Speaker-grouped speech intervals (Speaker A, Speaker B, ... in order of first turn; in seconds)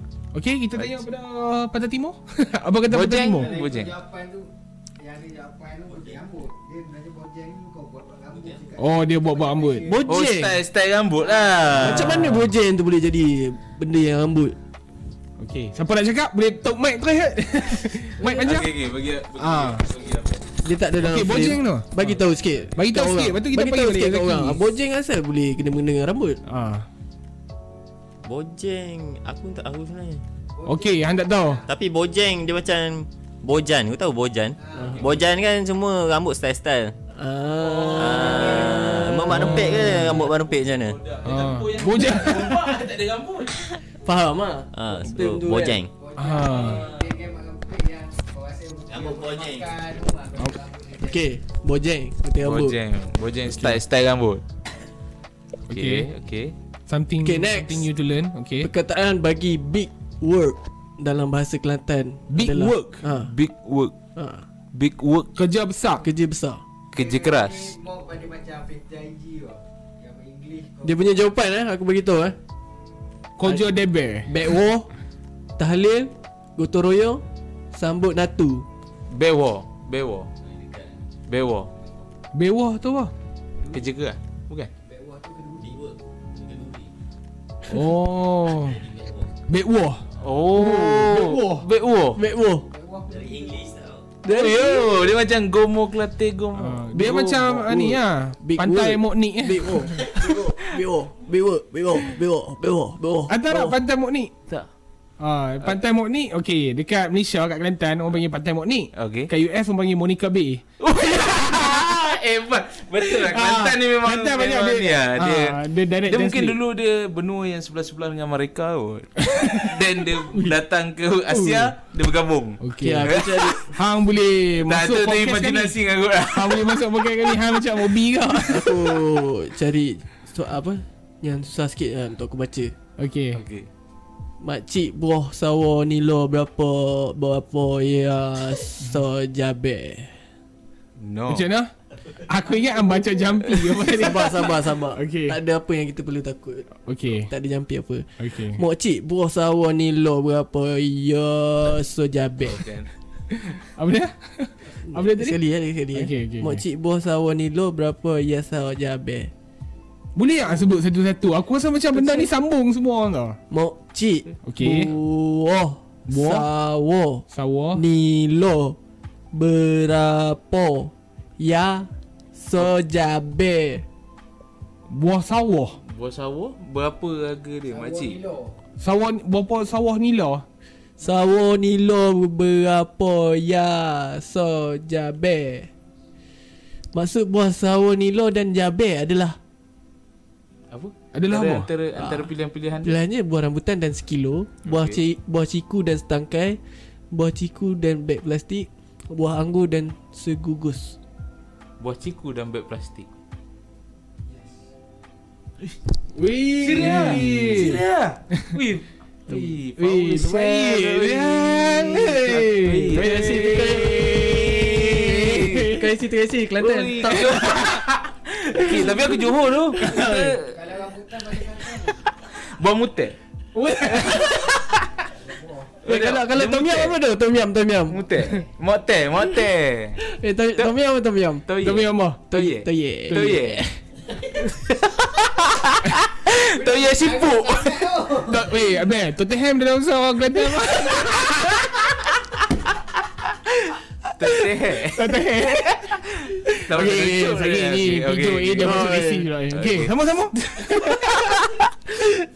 Speaker A: 0.3-3.5, 8.8-9.9, 11.8-12.5, 15.4-18.7, 19.4-19.8, 21.0-22.2, 22.7-24.6, 26.4-26.9, 30.7-31.6, 41.2-42.7, 46.2-46.8, 53.5-53.8, 55.7-56.1, 56.9-58.7, 62.3-63.0, 65.3-66.0, 73.4-74.4, 82.3-83.1, 87.7-88.8, 89.5-91.6, 96.6-99.8, 103.3-104.3, 105.2-110.6, 113.2-116.6, 119.2-119.7, 122.6-129.0, 133.0-133.4, 141.3-145.4, 146.8-147.3, 148.2-148.6, 153.3-155.4, 155.9-156.6, 160.2-163.4, 164.4-164.9, 166.1-166.5, 167.3-167.8, 174.9-175.8, 178.8-180.4, 191.1-191.7, 206.2-207.8, 209.8-215.8, 219.8-220.3, 223.6-224.3, 231.6-232.2, 238.3-242.0, 244.3-251.7
Speaker B: 2.9-3.9, 10.1-12.3, 18.2-20.4, 38.0-38.5, 39.8-43.6, 52.4-54.4, 55.7-56.5, 62.5-63.9, 64.7-65.3, 66.9-67.7, 79.1-80.3, 81.3-81.7, 83.7-84.7, 90.2-92.2, 94.2-97.3, 108.9-109.3, 110.8-123.6, 124.7-126.6, 133.3-133.7, 141.0-141.5, 152.4-152.9, 175.8-178.2, 190.7-193.0, 194.7-195.0, 201.8-203.1, 206.6-215.8, 216.6-220.6, 222.1-223.2, 223.9-224.9, 225.8-227.0, 227.9-230.0, 231.5-233.6, 234.4-238.0, 244.2-248.8, 249.5-249.9
Speaker C: 3.3-10.3, 11.2-11.8, 30.6-31.7, 34.6-35.0, 37.8-39.2, 45.8-51.3, 66.9-71.0, 84.9-85.8, 92.6-93.8, 142.6-143.2, 177.7-178.6, 204.2-204.7, 220.4-222.1, 225.1-225.8, 236.3-238.7
Speaker D: 5.9-6.2, 8.3-8.7, 28.2-30.2, 31.7-36.9, 37.9-41.0, 44.7-45.9, 46.5-47.2, 48.9-49.8, 80.5-81.0, 85.6-86.9, 88.5-89.3, 93.1-94.1
Speaker E: 9.9-10.6, 11.7-14.6, 20.6-26.4, 37.1-40.3, 44.0-45.8, 51.0-52.8, 57.2-57.9, 58.6-63.3, 64.2-64.4, 66.0-66.6, 70.8-72.4, 73.5-73.7, 74.3-74.9, 75.6-78.7, 90.6-91.5, 92.2-92.7, 94.2-94.9, 97.0-103.8, 121.4-121.6, 122.8-123.7, 128.5-132.7, 134.4-140.2, 143.8-146.7, 147.3-152.6, 154.9-159.3, 163.5-168.8, 169.3-173.8, 181.0-185.7, 186.9-189.4, 192.0-192.3, 192.8-196.6, 197.1-201.0, 212.9-217.8, 218.7-219.2, 219.8-220.3, 225.9-228.2, 230.0-231.5, 232.3-233.7, 248.6-249.3